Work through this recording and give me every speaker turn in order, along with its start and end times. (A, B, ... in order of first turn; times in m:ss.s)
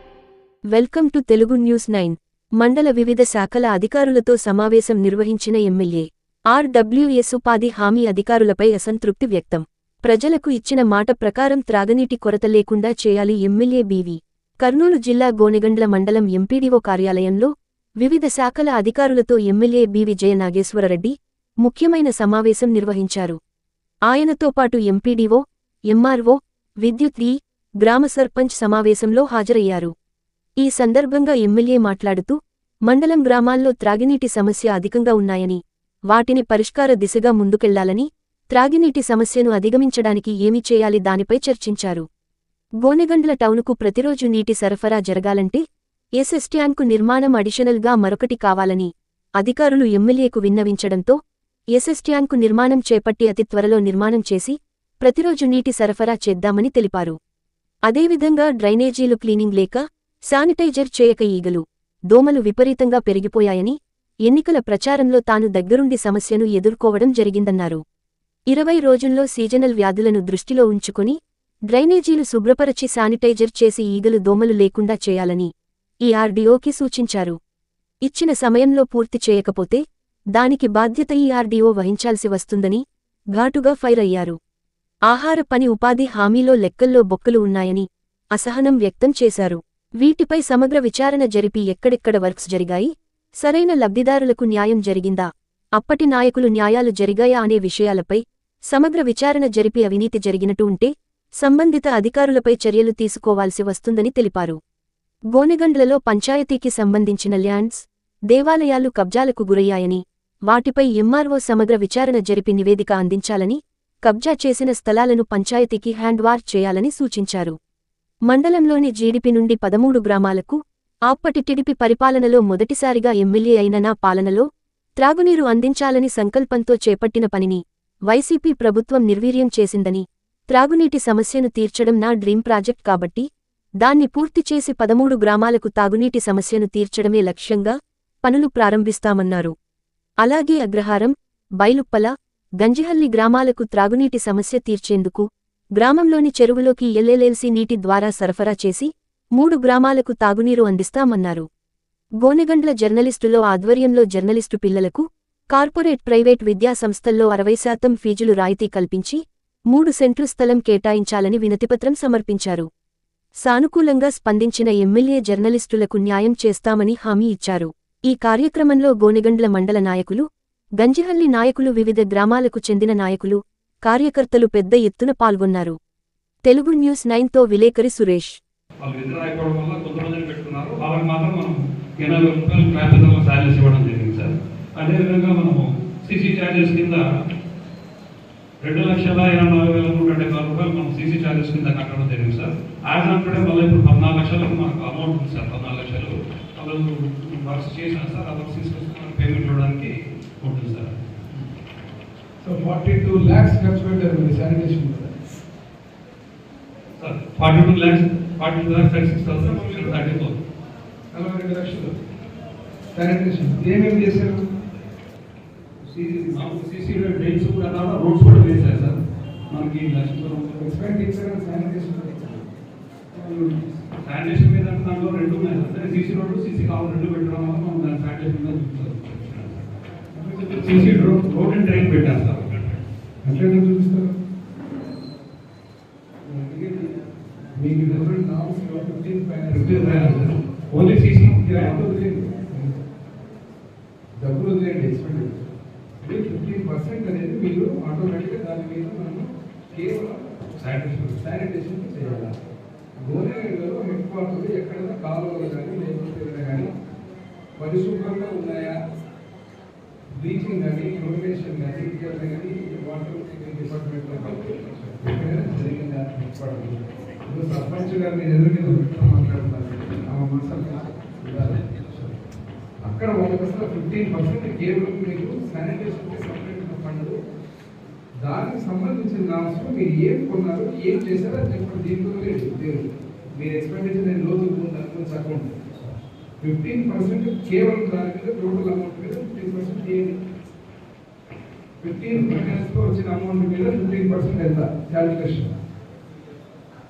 0:00.8-0:17.5 A
0:18.0-0:23.4 A
0:24.1-0:29.9 A
0:30.6-0:32.4 A
0:32.9-0:35.6 A
0:36.1-0:42.0 A
0:42.8-0:45.6 A
0:46.2-0:48.9 A
0:49.4-0:51.2 A
0:51.8-0:57.2 A
0:57.9-1:03.8 A
1:04.3-1:07.8 A
1:08.5-1:11.2 A
1:11.7-1:15.5 A
1:16.0-1:17.4 A
1:18.0-1:19.8 A
1:20.4-1:22.8 A
1:23.4-1:24.4 A
1:25.1-1:32.9 A
1:33.4-1:35.3 A
1:35.8-1:38.2 A
1:38.7-1:40.9 A
1:41.4-1:44.6 A
1:45.3-1:47.8 A
1:48.3-1:57.5 A
1:58.3-2:00.6 A
2:01.1-2:04.4 A
2:05.0-2:13.2 A
2:13.8-2:19.5 A
2:20.2-2:25.2 A
2:25.8-2:31.4 A
2:32.2-2:39.2 A
2:39.7-2:42.7 A
2:43.4-2:50.2 A
2:50.8-2:55.8 A
2:56.4-2:58.3 A
2:58.8-3:07.0 B
3:08.6-3:21.0 B
3:22.4-3:25.1 C
3:27.0-3:30.4 B
3:29.3-3:30.2 C
3:31.1-3:31.9 C
3:32.9-3:34.4 C
3:35.8-3:39.0 B
3:39.5-3:40.7 B
3:40.6-3:42.4 C
3:43.1-3:49.7 B
3:50.1-3:51.1 C
3:50.5-3:52.8 B
3:53.2-3:54.2 C
3:56.2-3:57.0 C
3:57.6-4:00.3 C
3:59.5-4:01.8 B
4:01.2-4:02.7 C
4:04.2-4:05.4 C
4:06.0-4:10.3 C
4:10.6-4:11.2 B
4:11.2-4:12.3 C
4:13.0-4:16.7 C
4:17.6-4:18.8 C
4:20.1-4:32.1 C
4:32.8-4:37.1 C
4:38.2-4:42.8 C
4:43.3-4:45.8 C
4:46.4-4:50.2 C
4:51.8-4:55.5 C